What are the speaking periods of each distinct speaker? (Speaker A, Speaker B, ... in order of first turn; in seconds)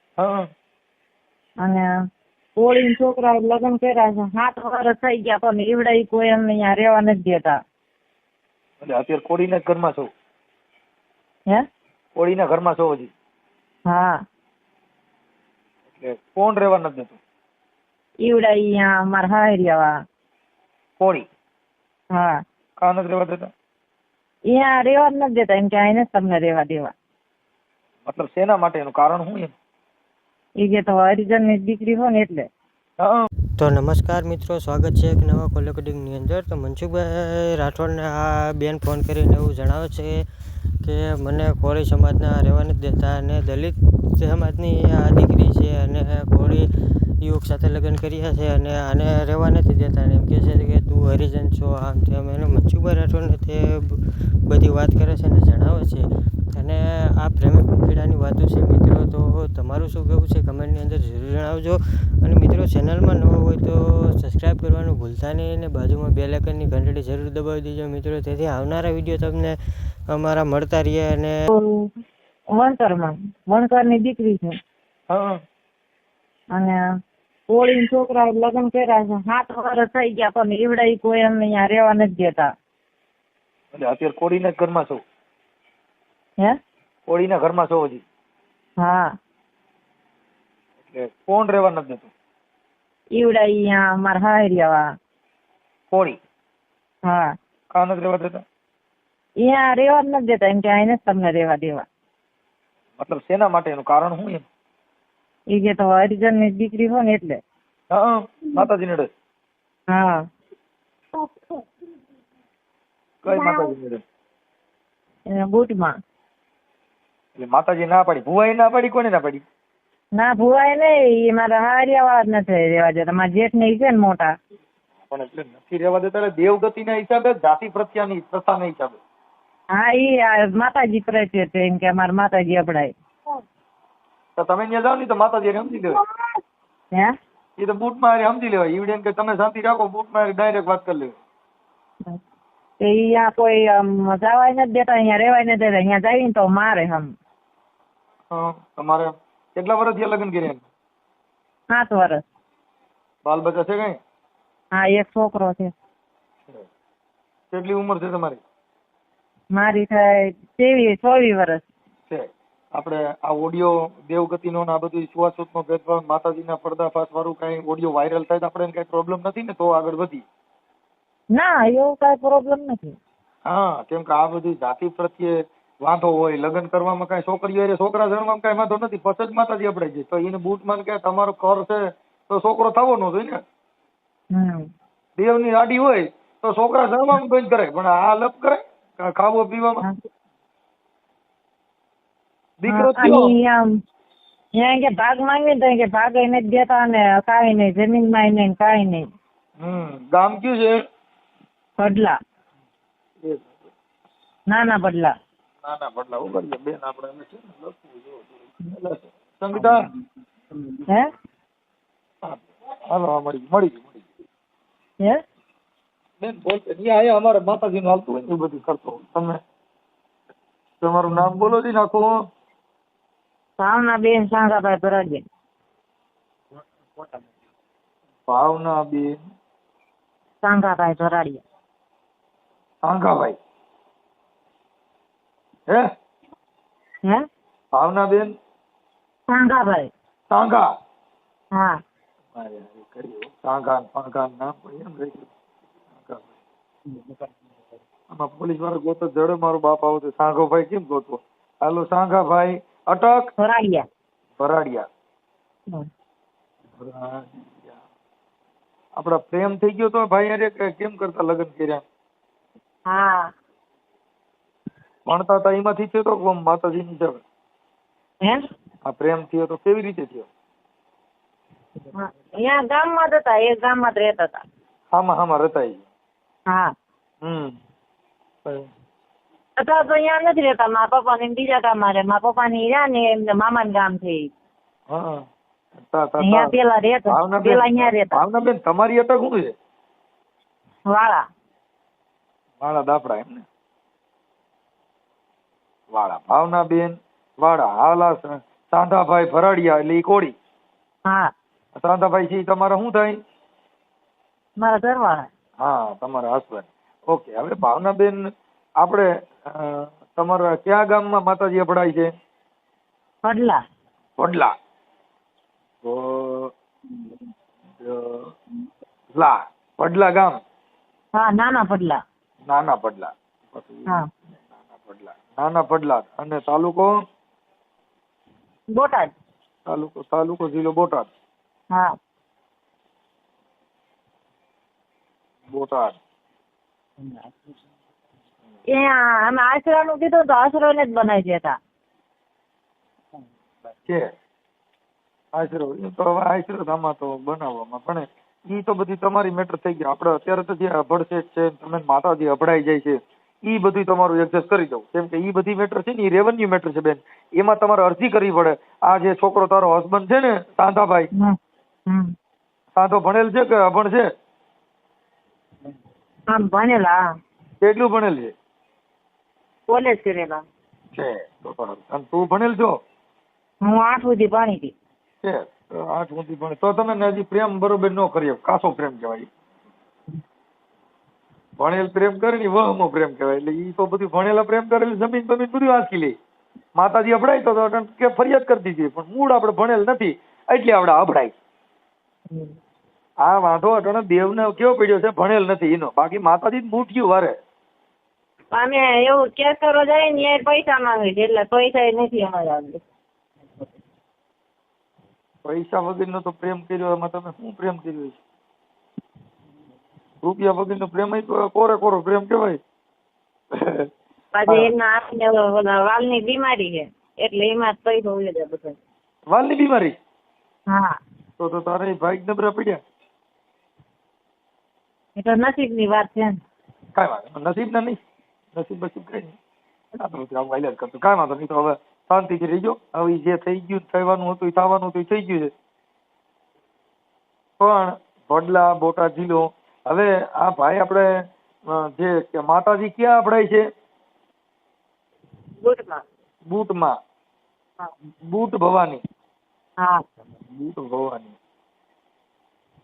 Speaker A: 0.2-0.5, 8.8-10.1, 12.1-13.1, 15.9-17.2, 21.0-21.3, 22.8-23.5, 28.1-29.5, 33.0-33.3, 75.1-75.3, 83.7-85.0, 87.1-88.0, 90.9-92.1, 95.9-96.2, 97.7-98.4, 103.0-104.5, 107.9-109.1, 113.2-114.0, 117.3-119.4, 125.1-129.0, 134.4-136.0, 137.6-141.1, 148.3-150.6, 153.2-154.0, 157.5-158.4, 162.1-170.2, 173.4-183.4, 185.2-189.8, 192.6-193.3, 199.6-200.8, 203.2-203.7, 205.6-209.9, 212.9-214.1, 216.2-219.4, 220.8-222.1, 228.3-229.1, 232.8-233.4, 237.7-238.3, 240.3-240.6, 242.3-245.3, 246.0-246.3, 248.1-253.2, 254.4-254.8, 256.8-257.8, 258.9-261.8, 265.1-267.2, 268.8-270.3, 274.9-275.8, 277.2-277.5, 284.9-285.2, 285.8-286.5, 287.1-289.5, 292.6-293.4, 295.9-300.3, 301.8-303.1, 305.6-308.2, 308.8-312.1, 314.2-314.5, 315.8-316.5, 317.8-318.3, 319.1-320.4, 322.4-324.1, 324.8-326.9, 329.6-331.1, 335.5-336.0, 345.3-361.1, 362.8-364.1, 367.6-368.3, 370.9-372.8, 375.2-379.3, 381.6-386.1, 386.8-391.3, 393.2-397.3, 405.4-408.2, 410.2-412.6, 413.6-413.9, 419.3-420.0, 421.4-422.8, 426.9-428.0, 428.5-429.3, 430.0-435.5, 437.6-441.1, 441.7-443.6, 446.5-446.9, 448.2-449.0, 450.5-451.4
Speaker B: 2.6-7.6, 13.9-14.2, 18.2-19.9, 22.1-22.4, 24.5-26.9, 30.6-32.5, 71.5-71.9, 72.5-74.6, 76.5-76.8, 77.5-82.5, 88.8-89.1, 93.2-94.8, 97.1-97.3, 99.4-101.8, 105.5-107.4, 109.9-110.2, 113.3-113.7, 115.3-115.9, 120.2-124.3, 129.7-132.9, 135.8-136.3, 142.8-147.1, 151.7-152.2, 154.7-155.7, 159.6-161.6, 171.3-173.0, 184.3-184.7, 192.7-193.6, 194.6-199.1, 201.8-202.2, 204.5-205.1, 221.1-221.4, 223.6-225.2, 230.4-231.4, 239.3-239.9, 241.5-241.8, 253.4-253.8, 262.9-263.3, 271.9-274.4, 279.6-284.3, 286.2-288.2, 290.9-291.2, 304.6-305.3, 313.2-313.6, 321.1-322.0, 328.7-329.1, 338.7-341.6, 361.9-362.1, 366.3-367.0, 369.7-370.4, 373.6-374.7, 392.3-392.5, 398.5-402.8, 414.3-418.8, 420.7-421.0, 425.2-426.4, 445.6-446.0
Speaker C: 33.6-40.2, 40.8-46.7, 47.2-69.6, 70.1-71.4